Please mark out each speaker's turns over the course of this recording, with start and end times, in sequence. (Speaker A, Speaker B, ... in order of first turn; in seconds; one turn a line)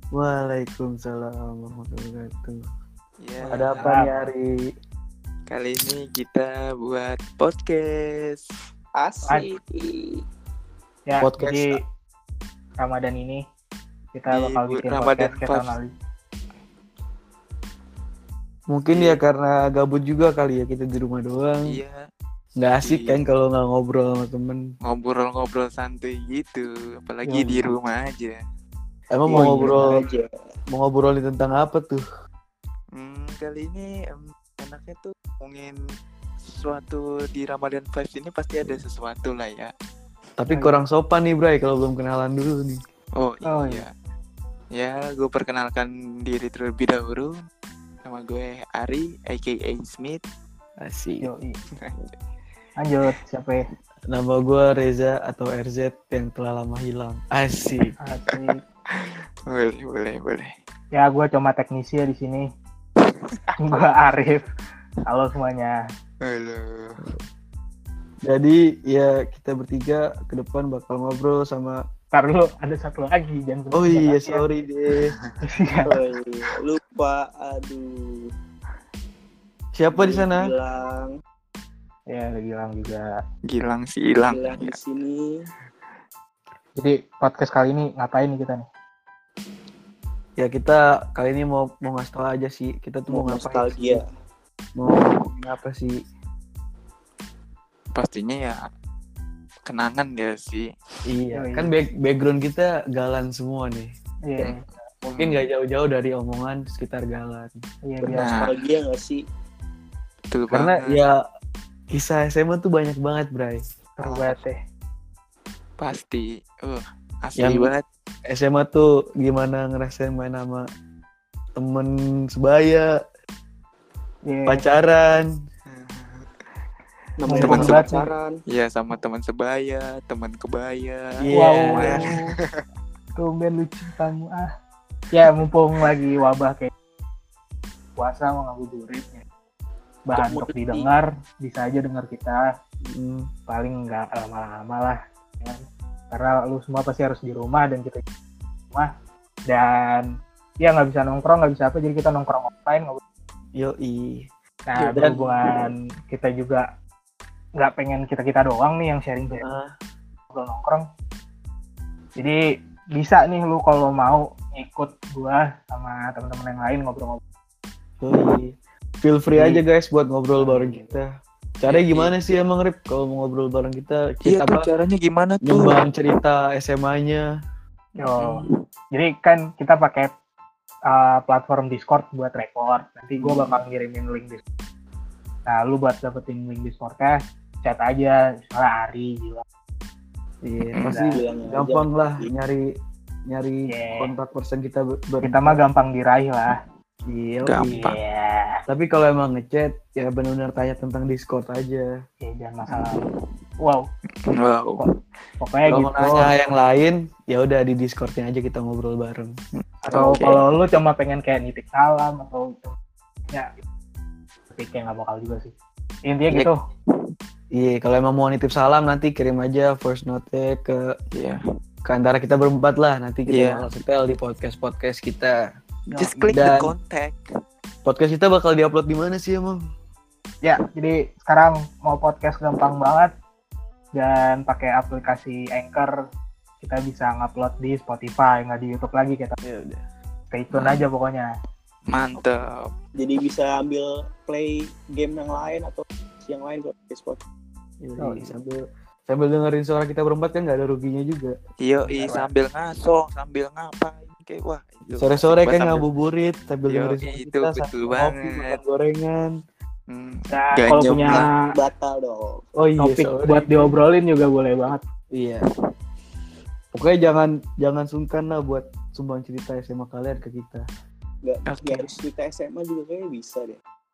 Speaker A: 0.1-2.6
Speaker B: 3.2-3.9
Speaker C: 3.5-4.2
Speaker A: 3.5-4.5
Speaker B: 5.5-8.4
Speaker D: 8.9-10.2
Speaker C: 11.1-11.8
Speaker A: 11.2-11.7
Speaker C: 12.8-13.4
Speaker C: 14.1-15.9
Speaker B: 14.3-15.7
Speaker A: 18.7-21.7
Speaker D: 18.9-19.2
Speaker B: 21.6-22.0
Speaker A: 22.6-24.6
Speaker B: 22.8-23.2
Speaker B: 24.8-28.4
Speaker A: 27.3-27.6
Speaker A: 29.1-30.0
Speaker D: 29.3-30.3
Speaker C: 29.3-29.8
Speaker A: 30.7-32.0
Speaker B: 32.9-35.8
Speaker B: 36.5-39.7
Speaker A: 40.4-42.8
Speaker C: 40.5-40.8
Speaker B: 43.1-43.9
Speaker C: 43.5-43.8
Speaker B: 44.7-47.4
Speaker B: 48.0-50.2
Speaker A: 50.8-51.3
Speaker C: 51.2-51.6
Speaker C: 52.8-53.6
Speaker A: 54.1-57.9
Speaker C: 58.0-58.6
Speaker B: 58.9-60.5
Speaker C: 60.9-62.5
Speaker C: 63.6-64.4
Speaker C: 65.0-65.8
Speaker B: 66.2-67.0
Speaker A: 68.2-71.8
Speaker C: 72.1-74.4
Speaker A: 73.7-75.1
Speaker C: 75.4-76.0
Speaker D: 75.8-78.3
Speaker A: 79.7-80.5
Speaker D: 79.9-81.1
Speaker C: 82.1-83.0
Speaker B: 83.5-84.8
Speaker D: 84.3-85.3
Speaker C: 86.8-88.7
Speaker A: 90.4-94.0
Speaker D: 93.1-94.0
Speaker A: 94.8-95.9
Speaker B: 97.9-98.6
Speaker B: 99.7-100.7
Speaker A: 101.0-107.6
Speaker C: 101.3-101.7
Speaker C: 104.3-104.6
Speaker B: 105.1-105.4
Speaker C: 107.8-108.5
Speaker B: 108.1-108.5
Speaker D: 108.3-109.2
Speaker B: 110.3-111.0
Speaker A: 110.5-111.2
Speaker A: 111.9-113.6
Speaker C: 114.0-114.5
Speaker B: 114.0-114.4
Speaker B: 115.8-117.8
Speaker A: 117.4-117.7
Speaker A: 118.3-120.6
Speaker A: 121.6-122.9
Speaker C: 124.3-124.6
Speaker A: 124.5-125.3
Speaker B: 125.7-126.2
Speaker D: 127.2-128.3
Speaker C: 127.3-128.0
Speaker A: 127.4-127.8
Speaker B: 127.4-127.9
Speaker B: 128.5-132.6
Speaker A: 131.2-132.2
Speaker C: 131.3-132.2
Speaker C: 133.2-134.4
Speaker C: 135.1-136.7
Speaker C: 137.9-139.2
Speaker C: 140.1-142.4
Speaker D: 140.2-140.9
Speaker A: 142.8-143.3
Speaker C: 143.5-148.0
Speaker C: 149.5-150.1
Speaker C: 150.6-153.0
Speaker A: 153.6-154.2
Speaker C: 154.7-156.6
Speaker A: 154.9-155.2
Speaker C: 157.6-159.4
Speaker A: 159.4-159.7
Speaker C: 160.3-160.8
Speaker C: 163.0-167.2
Speaker A: 168.0-171.1
Speaker C: 170.4-170.8
Speaker A: 171.6-174.7
Speaker B: 171.6-172.1
Speaker B: 174.2-175.8
Speaker A: 175.4-177.2
Speaker B: 177.9-178.5
Speaker C: 178.0-178.4
Speaker C: 178.9-180.1
Speaker C: 180.9-184.4
Speaker A: 183.2-183.5
Speaker C: 185.5-189.4
Speaker A: 190.4-192.6
Speaker B: 190.7-191.0
Speaker C: 190.9-191.2
Speaker D: 191.1-192.3
Speaker A: 193.3-195.6
Speaker C: 193.7-194.1
Speaker C: 195.2-196.6
Speaker A: 197.1-197.9
Speaker B: 197.4-197.7
Speaker C: 197.6-198.5
Speaker A: 198.7-201.9
Speaker C: 202.2-203.1
Speaker B: 202.7-203.1
Speaker B: 204.3-204.8
Speaker C: 205.4-206.3
Speaker A: 205.7-209.3
Speaker C: 209.8-212.7
Speaker A: 209.9-210.4
Speaker B: 209.9-210.4
Speaker C: 214.5-215.5
Speaker C: 216.1-216.5
Speaker A: 217.5-220.9
Speaker B: 221.1-221.4
Speaker A: 221.9-225.3
Speaker B: 223.3-223.7
Speaker C: 225.9-226.2
Speaker B: 225.9-227.2
Speaker A: 226.3-226.7
Speaker A: 227.8-229.6
Speaker C: 230.4-233.1
Speaker C: 233.9-235.9
Speaker C: 236.6-239.3
Speaker A: 239.4-239.8
Speaker C: 240.3-241.3
Speaker B: 240.5-240.9
Speaker B: 241.9-242.5
Speaker D: 243.0-247.2
Speaker A: 247.8-251.3
Speaker C: 248.0-248.3
Speaker B: 251.6-255.8
Speaker C: 251.8-252.3
Speaker A: 255.0-259.3
Speaker B: 256.7-258.6
Speaker B: 259.9-261.3
Speaker C: 260.3-261.4
Speaker D: 261.1-262.4
Speaker A: 262.6-263.7
Speaker C: 262.8-264.8
Speaker A: 265.1-265.4
Speaker A: 266.7-270.6
Speaker D: 271.2-273.6
Speaker B: 271.4-271.9